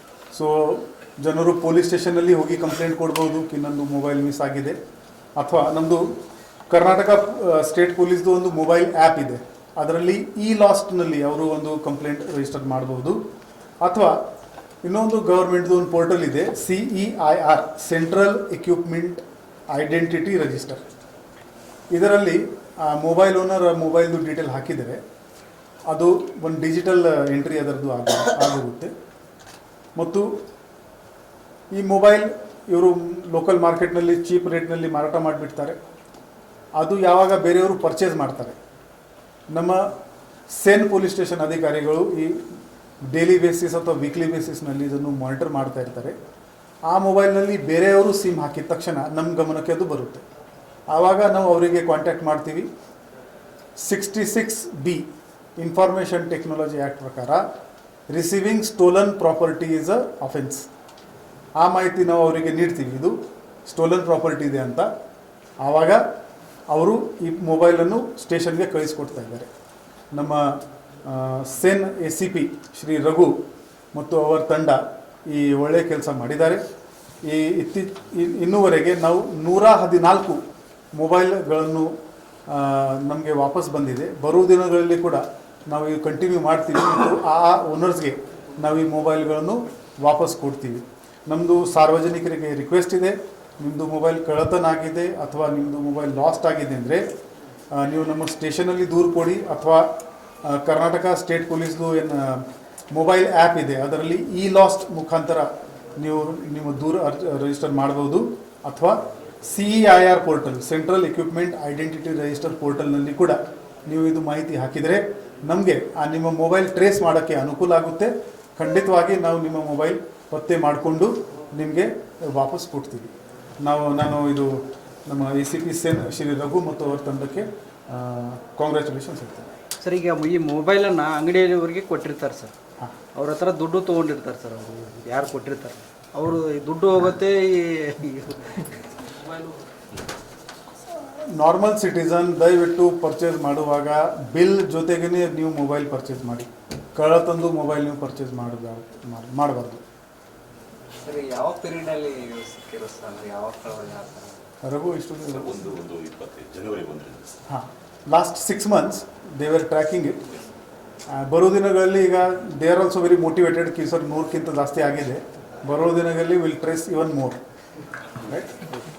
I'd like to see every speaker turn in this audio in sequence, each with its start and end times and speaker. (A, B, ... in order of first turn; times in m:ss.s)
0:00.3-0:04.8 A
0:05.4-0:06.1 A
0:06.7-0:13.2 A
0:13.8-0:14.2 A
0:14.8-0:20.8 A
0:21.9-0:25.0 A
0:25.9-0:28.9 A
0:30.0-0:30.4 A
0:31.7-0:35.8 A
0:36.8-0:38.6 A
0:39.5-0:40.0 A
0:40.5-0:42.5 A
0:43.0-0:46.2 A
0:46.9-0:50.2 A
0:50.9-0:52.7 A
0:53.8-0:57.4 A
0:58.1-1:00.7 A
1:01.6-1:04.9 A
1:05.6-1:06.0 A
1:06.7-1:09.5 A
1:10.1-1:13.4 A
1:13.9-1:16.6 A
1:17.2-1:20.4 A
1:20.9-1:21.9 A
1:22.5-1:37.0 A
1:37.7-1:39.9 A
1:40.4-2:09.5 A
2:09.8-2:12.5 B
2:13.1-2:19.5 B
2:21.0-2:29.8 A
2:31.0-2:34.4 C
2:34.6-2:35.6 A
2:35.3-2:37.3 D
2:37.5-2:40.2 A
2:41.1-2:47.4 A